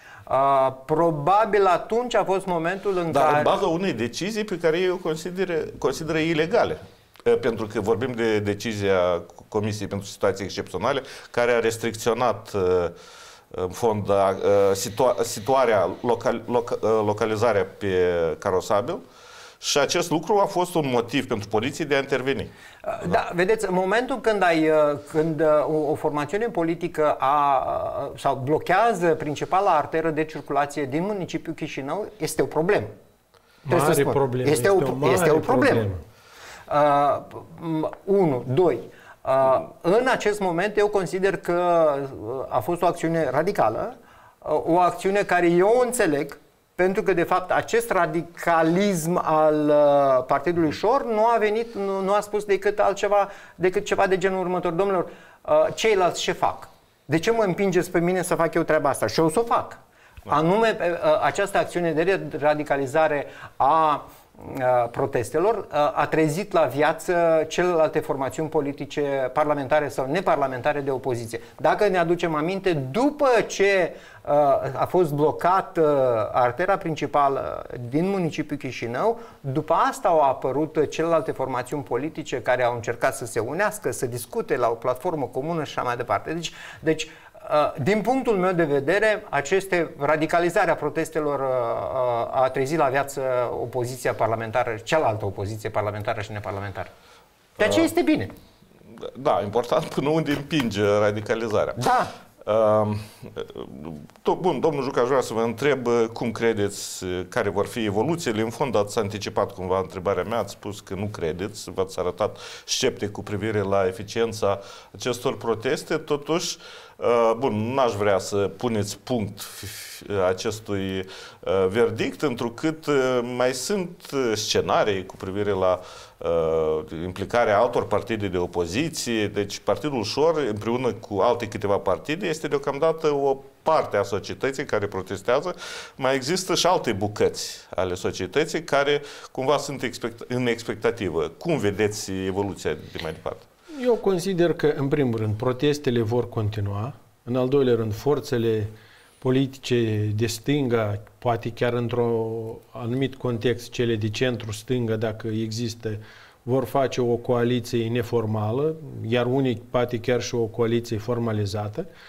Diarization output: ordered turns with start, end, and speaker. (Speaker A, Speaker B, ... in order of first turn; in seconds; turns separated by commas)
Speaker A: 0.3-3.5, Speaker B: 3.1-12.9, Speaker B: 13.5-19.0, Speaker B: 19.6-22.5, Speaker A: 22.8-32.9, Speaker C: 33.7-36.0, Speaker A: 33.7-35.9, Speaker A: 36.7-96.9, Speaker A: 97.6-98.3, Speaker B: 99.0-101.8, Speaker A: 101.8-102.1, Speaker B: 102.4-143.5, Speaker C: 143.8-161.9